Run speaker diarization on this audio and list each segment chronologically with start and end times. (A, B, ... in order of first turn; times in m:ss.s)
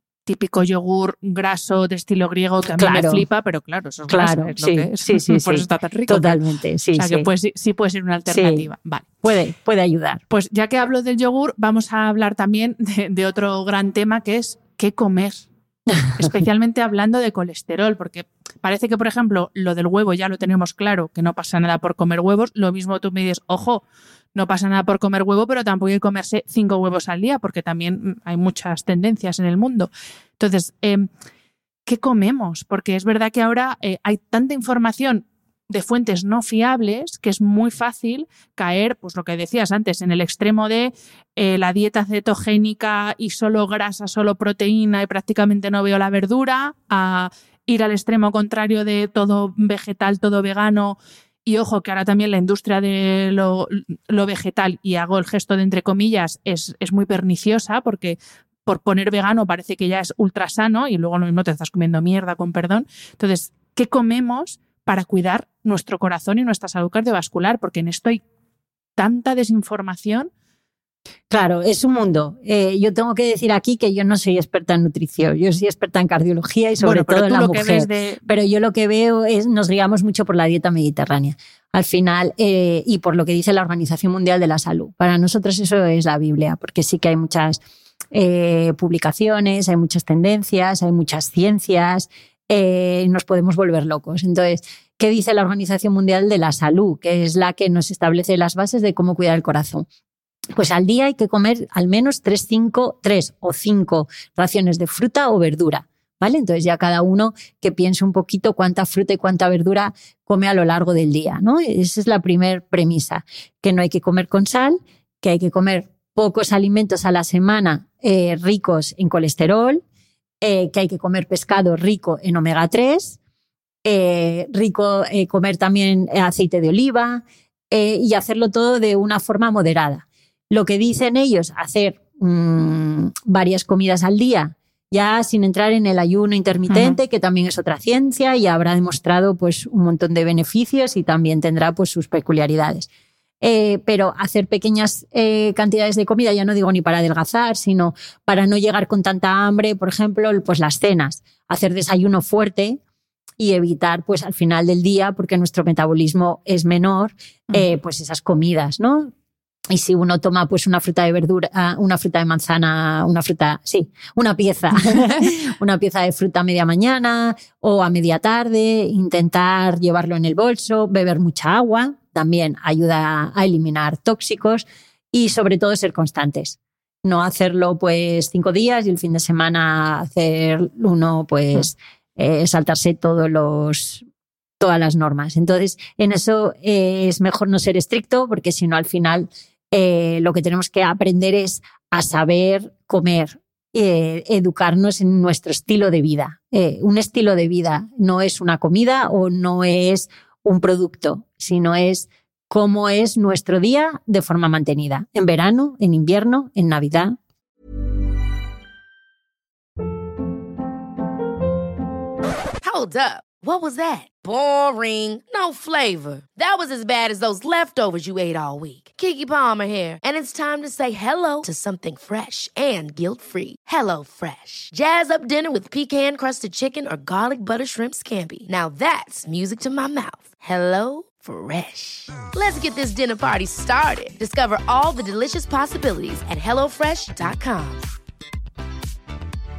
0:00.3-0:06.4 A
0:02.8-0:03.2 B
0:04.1-0:07.3 B
0:07.0-0:09.1 A
0:08.3-0:08.7 B
0:09.2-0:10.2 B
0:10.3-0:15.5 A
0:15.9-0:16.3 B
0:16.2-0:23.8 A
0:24.4-0:31.1 A
0:31.9-1:08.2 A
1:09.0-1:10.3 A
1:11.3-1:39.9 B
1:16.8-1:18.2 A
1:40.6-1:59.8 B
2:00.4-2:03.2 B
2:03.8-2:22.9 B
2:16.7-2:17.0 A
2:23.4-2:32.8 B
2:33.4-2:39.1 B
2:39.7-3:04.0 B
2:44.9-2:45.3 A
3:04.6-3:27.2 B
3:32.6-3:57.8 C